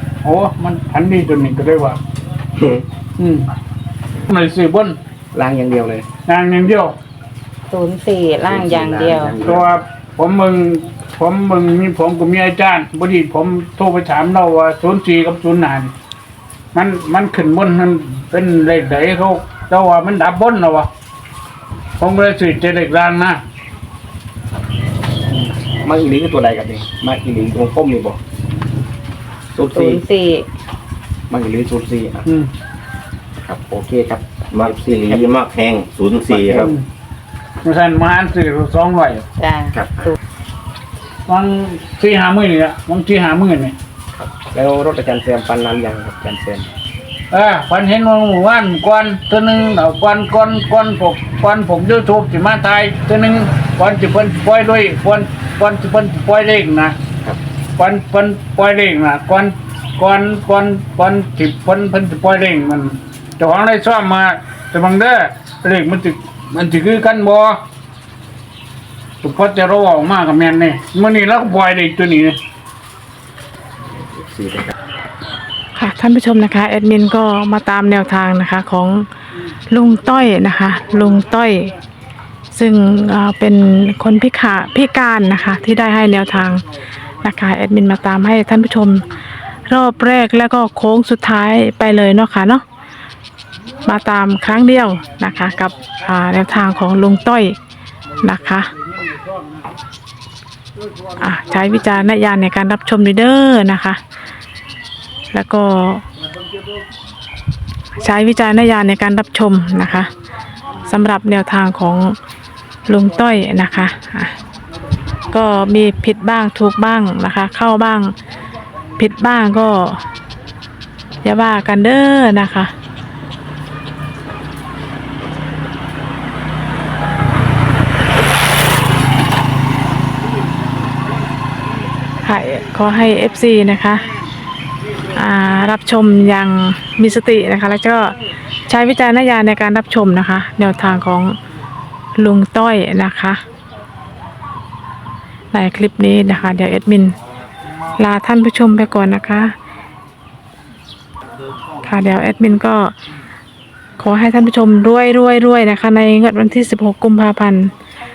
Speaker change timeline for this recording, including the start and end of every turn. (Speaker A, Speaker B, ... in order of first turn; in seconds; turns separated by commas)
Speaker A: 0.2-2.0, Speaker B: 2.6-2.8, Speaker A: 3.2-3.5, Speaker A: 4.2-5.0, Speaker B: 5.3-6.1, Speaker A: 6.2-6.9, Speaker C: 7.7-9.3, Speaker B: 8.5-9.7, Speaker A: 9.4-15.9, Speaker A: 16.7-20.9, Speaker A: 22.0-23.4, Speaker B: 25.3-28.2, Speaker B: 29.5-30.0, Speaker C: 29.6-30.4, Speaker B: 31.3-32.2, Speaker B: 33.4-35.4, Speaker D: 34.5-36.7, Speaker B: 36.2-36.7, Speaker A: 36.6-36.9, Speaker A: 37.6-39.2, Speaker C: 39.4-40.1, Speaker B: 39.7-40.1, Speaker A: 41.3-43.8, Speaker B: 44.3-46.7, Speaker A: 47.3-57.0, Speaker A: 57.8-67.6, Speaker A: 69.2-72.4, Speaker B: 74.0-74.7, Speaker E: 75.8-79.0, Speaker E: 79.7-81.7, Speaker E: 82.5-86.6, Speaker E: 87.2-89.0, Speaker E: 89.7-92.6, Speaker E: 93.8-97.5, Speaker E: 98.2-98.7, Speaker E: 101.2-104.0, Speaker E: 105.3-106.0, Speaker E: 108.0-110.1, Speaker E: 110.8-112.1, Speaker E: 112.9-114.3, Speaker E: 115.3-118.1, Speaker E: 119.0-120.0, Speaker E: 121.2-122.7, Speaker E: 132.2-134.1, Speaker E: 135.1-138.1, Speaker E: 138.7-141.3, Speaker E: 142.2-143.4, Speaker E: 145.5-147.1, Speaker E: 148.0-149.5, Speaker E: 151.8-152.9, Speaker E: 154.0-157.7